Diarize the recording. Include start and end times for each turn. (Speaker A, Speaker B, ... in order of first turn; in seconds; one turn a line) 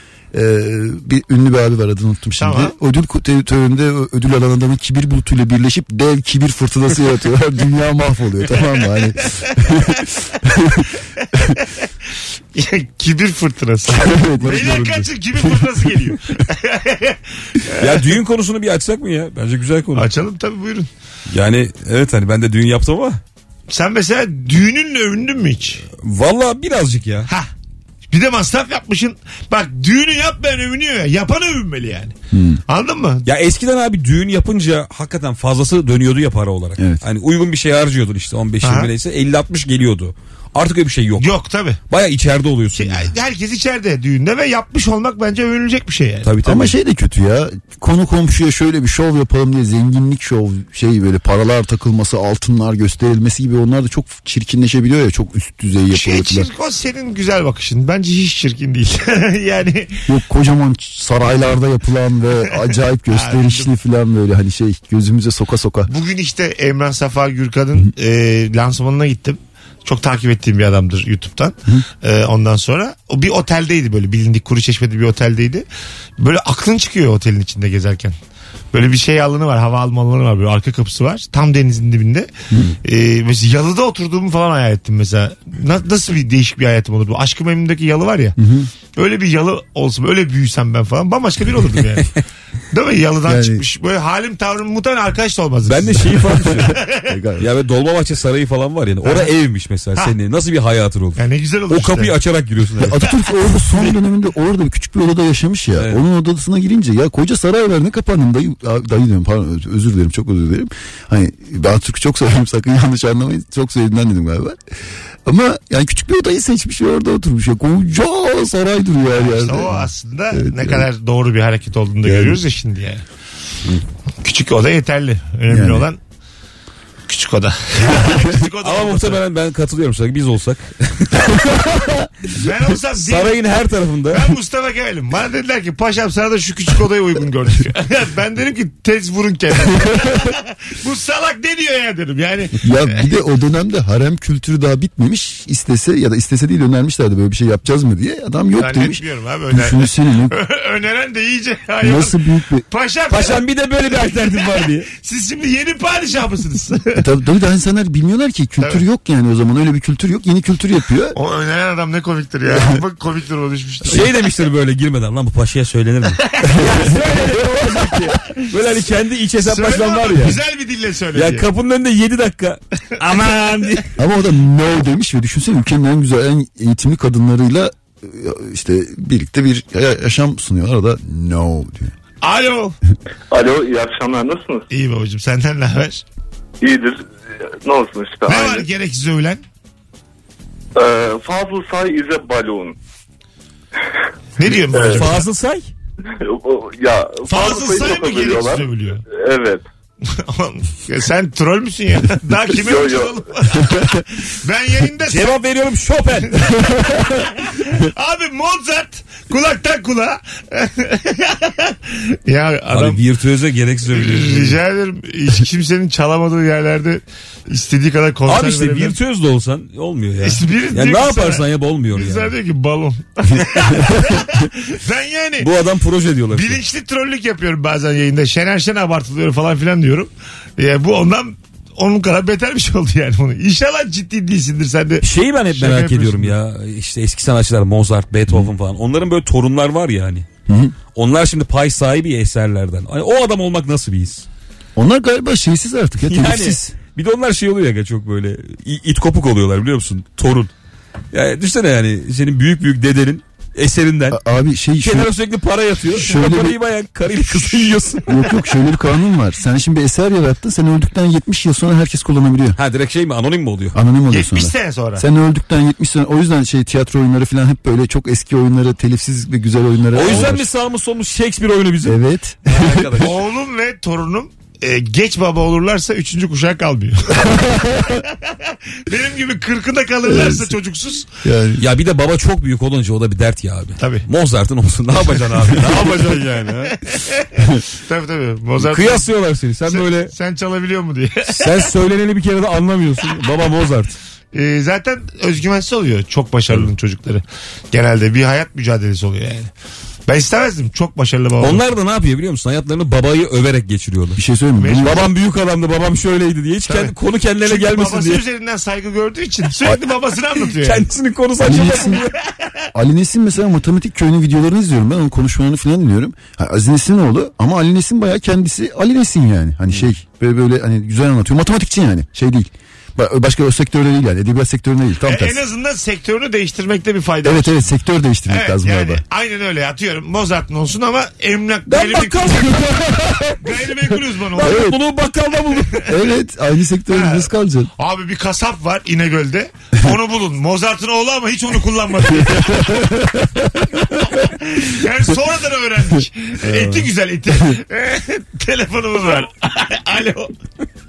Speaker A: 0.3-10.9
Speaker B: 2.4-2.8
Speaker B: 12.5-18.1
Speaker A: 13.9-15.1
Speaker C: 14.5-15.0
Speaker C: 17.8-20.1
Speaker B: 19.9-20.9
Speaker C: 21.3-23.2
Speaker B: 23.7-25.8
Speaker C: 25.9-27.3
Speaker B: 28.1-32.1
Speaker A: 32.3-32.6
Speaker B: 32.7-33.2
Speaker C: 33.3-41.3
Speaker B: 38.6-38.9
Speaker B: 41.2-41.8
Speaker C: 41.9-43.1
Speaker B: 42.7-46.3
Speaker C: 46.2-46.8
Speaker A: 46.4-56.5
Speaker B: 55.9-60.0
Speaker A: 60.1-65.9
Speaker B: 63.1-63.7
Speaker B: 65.9-75.7
Speaker B: 76.2-78.2
Speaker B: 78.7-82.3
Speaker B: 82.8-88.3
Speaker A: 88.4-88.7
Speaker B: 89.0-92.1
Speaker B: 92.7-97.1
Speaker A: 93.3-93.7
Speaker C: 95.7-96.8
Speaker A: 96.5-97.5
Speaker C: 97.4-103.1
Speaker B: 99.0-99.3
Speaker B: 101.2-102.2
Speaker A: 102.8-114.6
Speaker C: 105.8-106.0
Speaker A: 115.2-120.9
Speaker B: 119.1-123.0
Speaker A: 122.0-122.4
Speaker B: 124.2-126.0
Speaker A: 125.5-125.9
Speaker B: 127.1-129.2
Speaker C: 128.6-131.9
Speaker B: 132.3-133.4
Speaker C: 132.9-134.4
Speaker B: 134.1-142.7
Speaker A: 142.6-150.3
Speaker B: 148.6-152.2
Speaker A: 151.8-152.7
Speaker B: 152.7-153.4
Speaker C: 153.1-154.9
Speaker B: 154.1-157.0
Speaker A: 156.9-161.2
Speaker B: 161.2-164.1
Speaker A: 162.4-162.8
Speaker C: 163.9-170.4
Speaker B: 166.3-167.2
Speaker A: 166.6-166.9
Speaker B: 169.4-171.5
Speaker C: 171.1-173.9
Speaker A: 174.0-181.9
Speaker B: 182.2-182.8
Speaker D: 183.3-184.7
Speaker B: 184.7-186.0
Speaker D: 186.6-187.0
Speaker D: 187.6-188.7
Speaker B: 188.3-189.4
Speaker D: 190.8-192.8
Speaker B: 194.4-195.2
Speaker D: 194.7-195.0
Speaker C: 194.8-195.7
Speaker D: 196.2-199.7
Speaker B: 197.3-199.0
Speaker B: 200.1-205.3
Speaker D: 202.5-203.2
Speaker C: 205.1-207.2
Speaker B: 206.4-213.0
Speaker C: 212.7-214.6
Speaker B: 213.9-219.0
Speaker C: 218.3-222.3
Speaker B: 220.2-225.5
Speaker C: 223.4-224.3
Speaker C: 225.4-226.6
Speaker B: 226.3-236.3
Speaker C: 235.0-240.3
Speaker A: 240.5-240.8
Speaker C: 240.9-244.2
Speaker A: 244.8-246.8
Speaker C: 246.0-250.5
Speaker C: 251.1-254.2
Speaker A: 254.1-255.1
Speaker C: 254.8-258.2
Speaker A: 255.9-256.6
Speaker A: 257.5-262.6
Speaker C: 262.6-263.8
Speaker A: 263.7-270.5
Speaker B: 264.1-265.1
Speaker C: 269.9-273.2
Speaker A: 271.8-273.1
Speaker B: 273.0-281.1
Speaker A: 280.1-280.6
Speaker A: 281.2-281.6
Speaker C: 281.6-286.8
Speaker B: 283.8-284.1
Speaker B: 287.8-289.1
Speaker C: 288.6-290.1
Speaker B: 289.7-291.5
Speaker C: 291.3-294.0
Speaker B: 294.3-299.5
Speaker B: 300.1-301.6
Speaker C: 301.4-304.2
Speaker A: 304.2-305.1
Speaker B: 304.6-305.0
Speaker C: 304.7-308.2
Speaker B: 306.7-310.8
Speaker C: 310.4-312.1
Speaker A: 311.4-312.0
Speaker A: 312.7-325.4
Speaker B: 325.0-327.6
Speaker A: 327.2-329.0
Speaker B: 328.3-332.6
Speaker C: 331.7-333.5
Speaker B: 333.4-334.7
Speaker C: 334.4-335.9
Speaker A: 334.4-334.8
Speaker A: 335.9-337.7
Speaker B: 336.9-343.1
Speaker B: 343.8-350.3
Speaker C: 346.4-346.9